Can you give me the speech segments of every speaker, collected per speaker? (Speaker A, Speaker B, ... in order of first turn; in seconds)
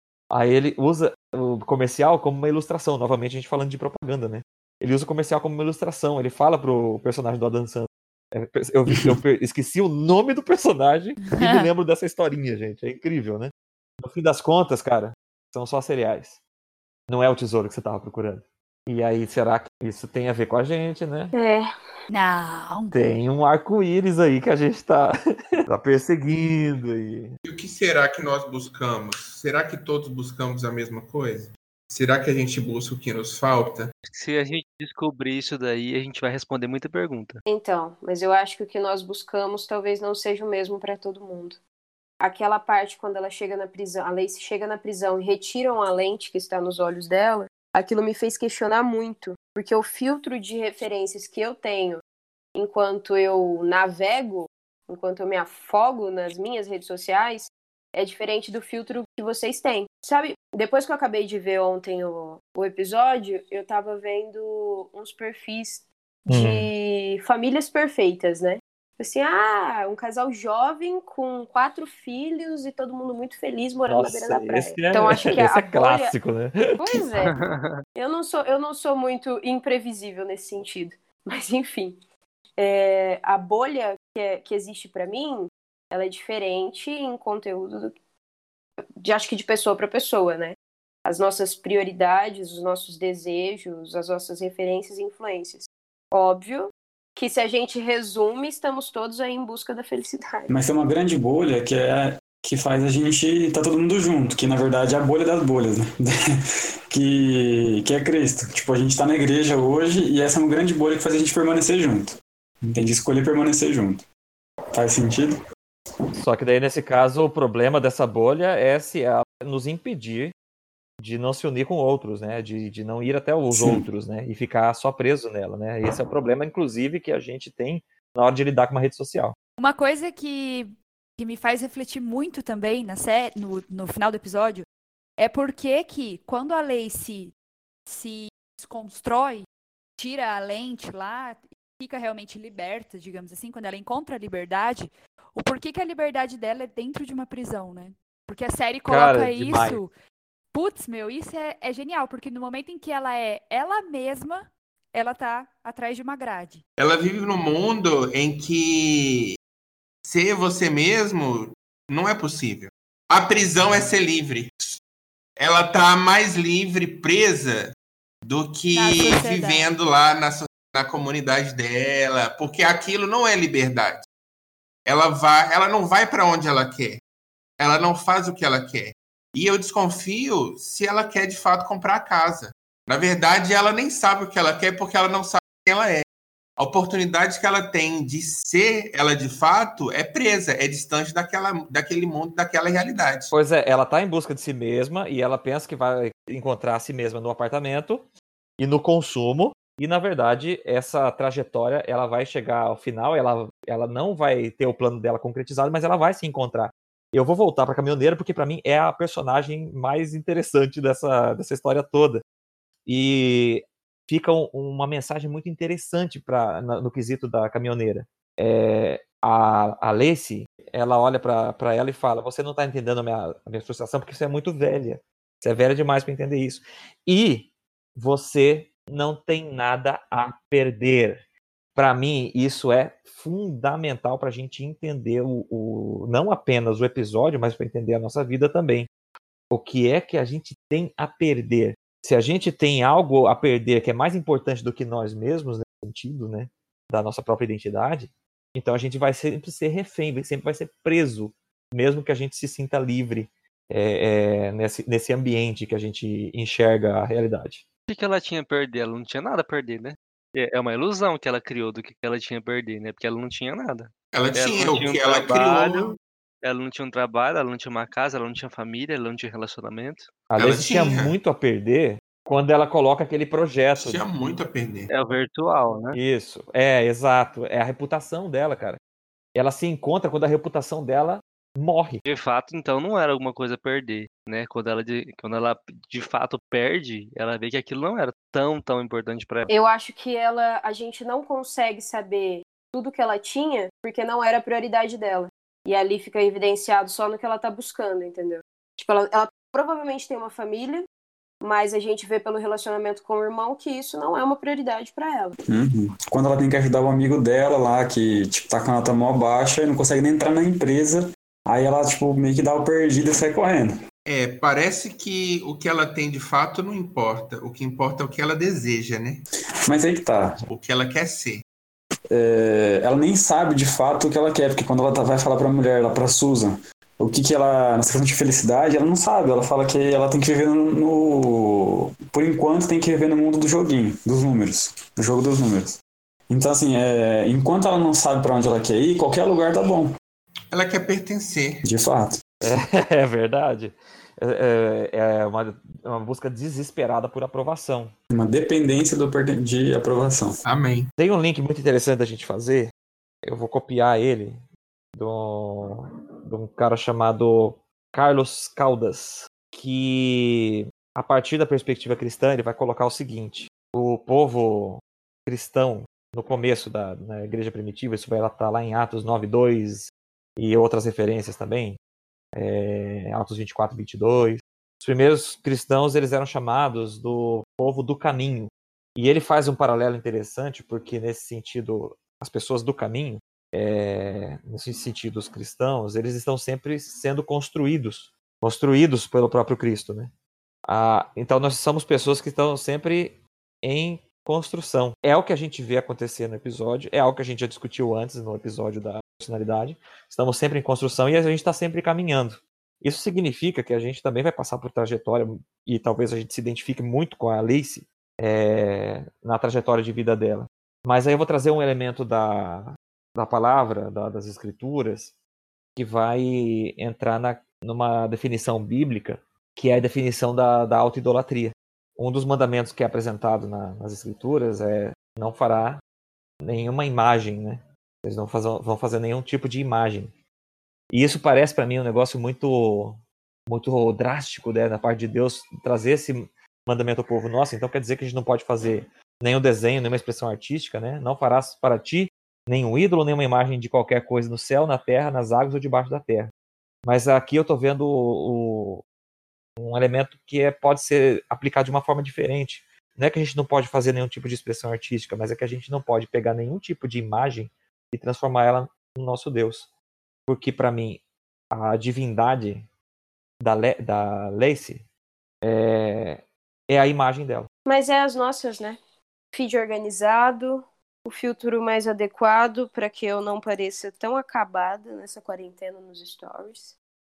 Speaker A: 0.3-16.4, 17.1-21.3, 22.9-27.4, 66.3-66.7, 73.9-77.0, 116.2-120.3, 121.0-129.4, 148.9-149.8, 193.3-198.1, 198.6-212.2, 212.9-231.2, 231.8-238.9, 239.5-257.6, 270.3-274.0, 275.9-278.8, 279.4-282.0, 342.4-347.9, 351.0-352.7, 353.2-354.4, 354.9-371.8, 372.3-390.1, 390.7-415.1, 415.8-425.8, 426.4-430.1, 430.9-446.3, 446.9-448.8, 449.6-459.7, 460.3-462.7, 463.4-464.9, 465.4-467.5
Speaker B: 11.3-11.7, 22.1-23.0, 129.6-134.7, 135.2-137.3, 137.9-139.5, 140.0-149.9, 150.5-156.6, 168.7-169.7
Speaker C: 21.3-21.7, 37.5-41.6, 42.2-52.0, 52.6-76.1, 76.7-77.4, 78.0-82.0, 82.6-88.0, 89.0-100.5, 289.5-300.9, 301.4-305.4, 467.7-468.8, 469.3-476.8
Speaker D: 27.4-33.9, 156.8-159.4, 160.1-164.8, 165.4-174.1, 174.9-177.0, 177.6-186.1, 186.6-193.3, 264.1-266.0, 270.4-271.1, 273.8-274.9, 314.1-319.2, 320.5-321.4, 340.5-341.6, 350.4-350.9
Speaker E: 34.0-37.4, 77.3-77.8, 257.9-270.1, 274.9-276.0, 282.1-289.5
Speaker F: 100.5-106.4, 106.9-114.0, 114.7-115.4, 123.5-123.8, 305.5-313.8, 319.6-320.4, 322.1-339.9, 341.6-342.2, 348.1-350.3